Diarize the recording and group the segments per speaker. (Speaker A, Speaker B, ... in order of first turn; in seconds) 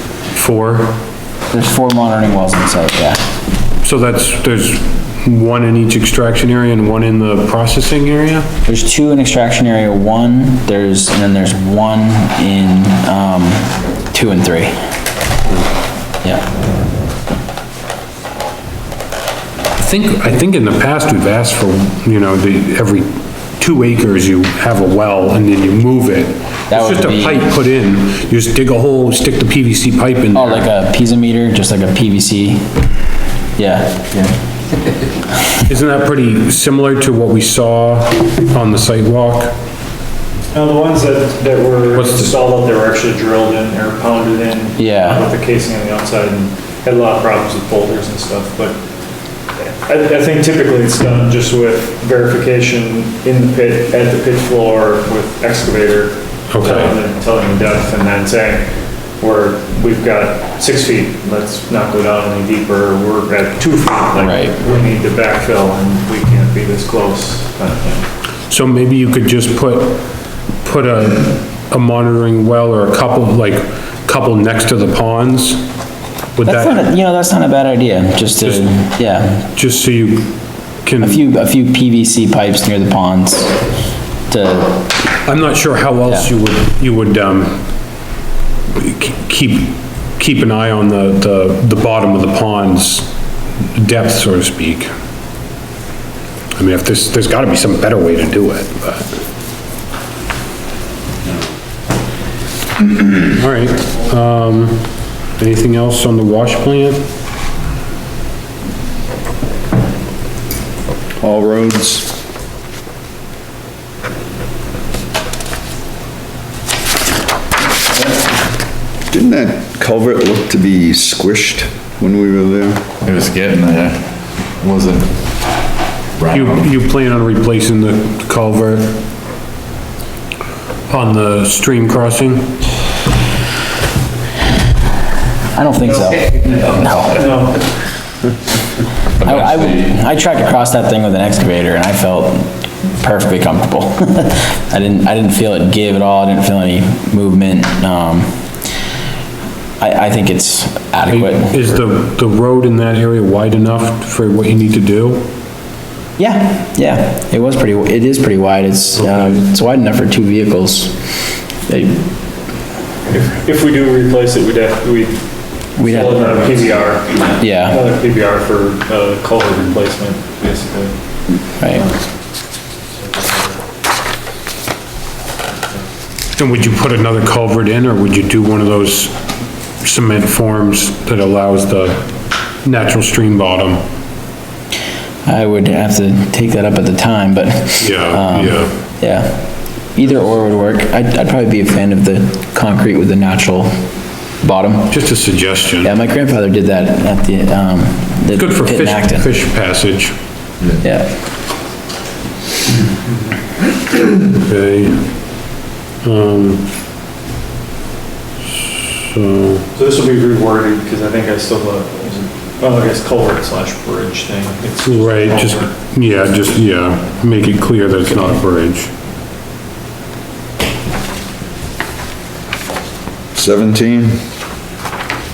Speaker A: 0.3-1.0, 3.8-8.5, 19.8-30.7, 35.7-39.6, 41.9-42.4, 56.5-56.9, 68.5-75.7, 76.4-76.9, 79.4-81.2, 85.2-87.7, 88.7-93.1, 93.7-94.9, 96.5-99.1, 103.1-107.1, 126.3-129.0, 130.9-132.6, 151.1-155.3, 176.4-179.2, 179.8-182.1, 182.6-183.8, 187.8-188.7, 194.9-195.9, 198.4-200.2, 204.3-205.1, 206.0-206.7, 208.7-209.7, 214.8-218.9
Speaker B: 1.5-3.2, 8.7-14.7, 26.7-27.5, 30.3-32.7, 33.6-34.2, 44.8-45.3, 64.2-64.5, 76.5-79.4, 81.0-83.6, 84.3-84.9, 135.5-137.2, 139.2-148.3, 149.8-151.6, 156.2-161.1, 161.7-162.1, 165.8-166.4, 167.4-167.8, 171.6-171.8, 185.3-193.8, 194.4-195.0, 195.8-199.3, 200.8-201.1
Speaker C: 40.5-48.8, 49.7-58.7, 59.2-68.1, 136.5-137.6, 163.1-165.2, 165.8-170.9, 173.1-173.4, 209.8-215.8
Speaker D: 111.2-112.1, 119.1-122.9, 223.3-224.2
Speaker E: 123.0-125.2, 126.2-126.7, 139.2-139.9